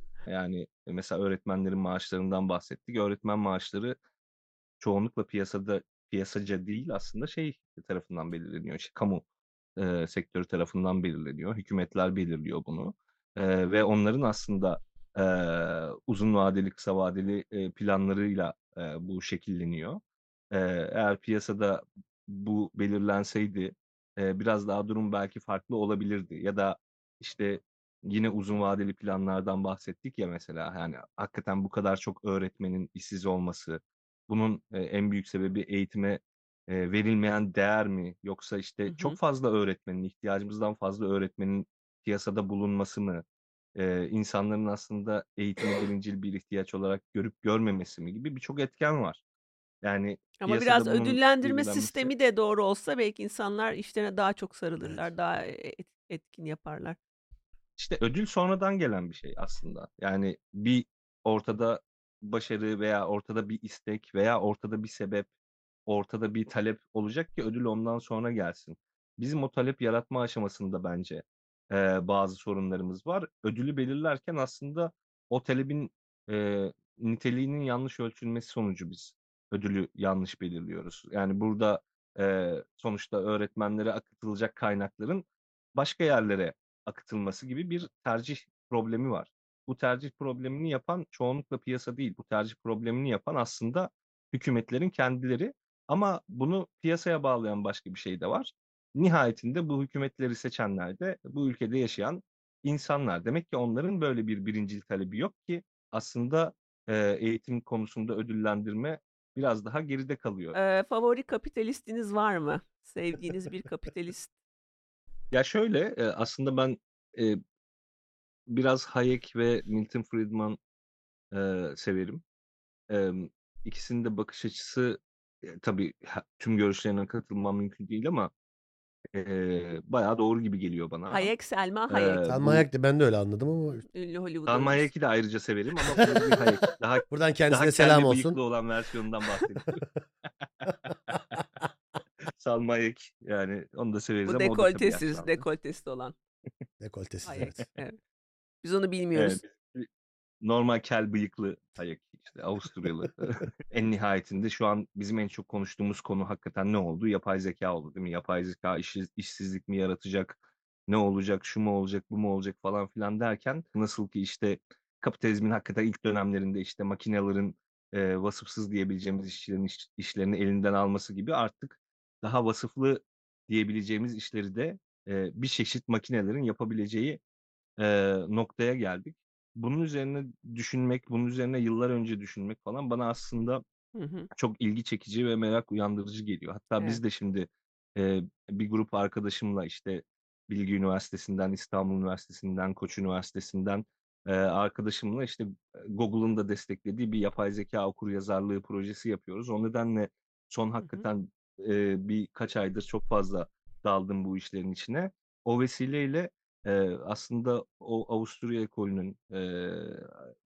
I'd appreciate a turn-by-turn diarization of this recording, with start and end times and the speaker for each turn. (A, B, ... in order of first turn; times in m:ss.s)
0:00.3-0:04.0 A
0:04.8-0:09.2 A
0:09.8-0:20.0 A
0:20.5-0:43.2 A
0:38.9-0:39.2 B
0:43.7-0:49.2 A
0:49.8-0:52.1 A
0:50.4-0:57.0 B
0:54.8-0:55.1 C
0:57.8-1:05.3 A
1:05.9-1:50.6 A
1:50.5-1:54.3 B
1:55.3-1:57.4 A
1:58.5-2:00.6 A
2:01.3-2:02.2 A
2:02.9-2:08.3 A
2:09.1-2:11.3 A
2:11.1-2:12.2 B
2:11.9-2:12.6 A
2:12.2-2:13.8 C
2:13.9-2:14.9 B
2:14.5-2:19.8 A
2:17.1-2:18.4 C
2:20.6-2:21.4 A
2:22.4-2:25.3 A
2:24.2-2:26.1 B
2:26.8-2:27.6 C
2:27.2-2:28.0 B
2:28.6-2:29.4 B
2:29.1-2:29.9 A
2:30.4-2:57.2 A
2:57.8-3:03.6 A
3:03.9-3:04.3 B
3:04.3-3:30.1 A
3:20.8-3:21.1 B